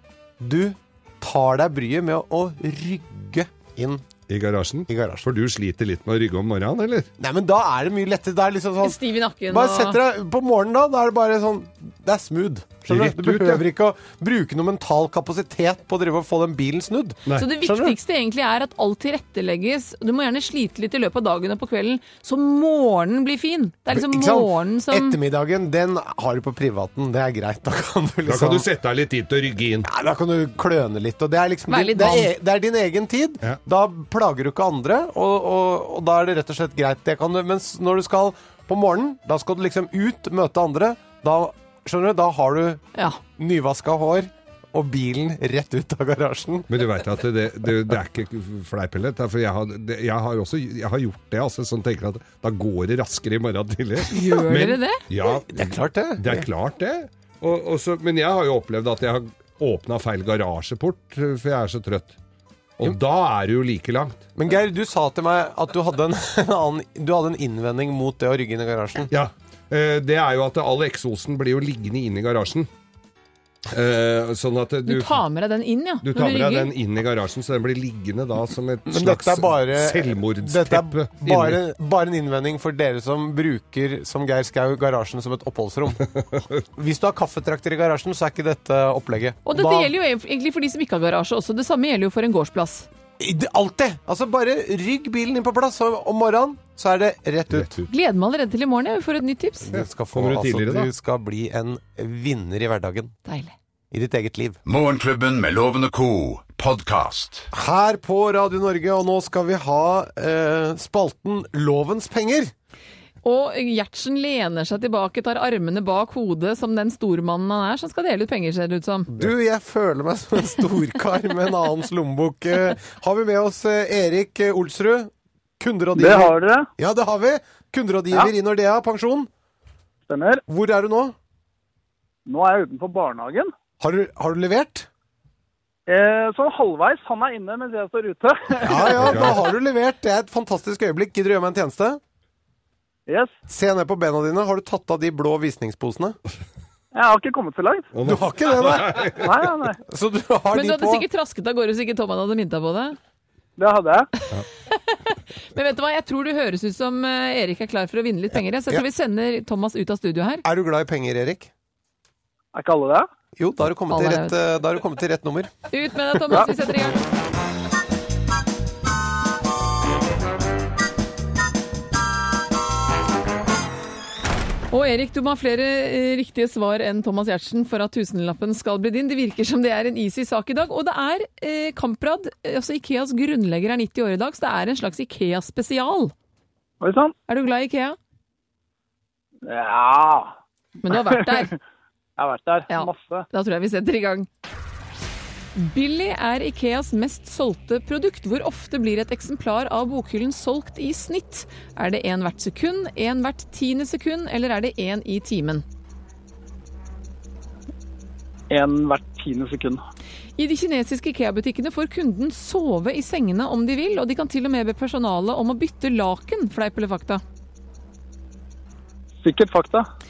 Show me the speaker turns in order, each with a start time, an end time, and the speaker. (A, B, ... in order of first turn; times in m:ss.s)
0:00.4-0:04.0 A
0:04.3-0:07.1 B
0:04.9-0:05.2 A
0:07.2-0:18.0 A
0:08.8-0:10.0 C
0:12.9-0:13.6 B
0:17.4-0:25.2 C
0:23.9-0:28.6 A
0:28.2-0:29.9 B
0:29.8-0:42.8 A
0:31.7-0:32.3 C
0:42.9-0:43.2 C
0:43.4-0:46.7 A
0:46.7-1:02.2 B
0:54.1-0:55.0 C
0:55.2-0:56.5 A
1:02.8-1:04.3 B
1:04.4-1:09.1 A
1:09.1-1:12.7 B
1:13.7-1:15.2 B
1:14.8-1:16.7 C
1:16.0-1:21.6 B
1:18.9-1:26.0 A
1:26.2-1:26.4 B
1:26.7-1:29.9 A
1:29.4-1:32.9 C
1:33.2-1:37.8 A
1:37.5-1:37.9 B
1:37.9-1:39.7 C
1:39.6-1:43.1 A
1:39.7-1:40.9 B
1:43.2-1:43.5 C
1:43.9-1:44.6 A
1:44.6-1:47.5 D
1:47.5-1:52.5 A
1:53.2-1:59.1 C
1:59.1-2:09.3 A
2:06.0-2:06.7 E
2:10.1-2:10.4 E
2:10.5-2:11.1 A
2:12.2-2:13.5 E
2:13.8-2:14.9 A
2:15.9-2:19.1 E
2:18.6-2:22.0 A
2:19.0-2:19.4 B
2:23.1-2:23.3 E
2:23.5-2:26.2 A
2:26.9-2:27.9 E
2:27.9-2:29.2 B
2:28.0-2:29.2 A
2:29.2-2:29.8 E
2:29.8-2:31.0 A
2:30.5-2:33.0 C
2:33.6-2:34.1 E
2:34.7-2:40.4 C
2:40.4-2:41.5 A
2:42.5-2:43.1 E
2:43.4-2:45.5 A
2:43.9-2:44.4 C
2:45.7-2:47.1 C
2:54.7-3:06.1 C
3:06.8-3:07.1 E
3:07.3-3:08.0 C
3:09.4-3:10.4 E
3:10.8-3:11.5 C
3:10.9-3:11.6 E
3:12.2-3:13.3 E
3:12.7-3:14.3 C
3:15.5-3:25.6 C
3:28.5-3:29.8 E
3:30.4-3:37.2 C
3:39.2-3:39.9 E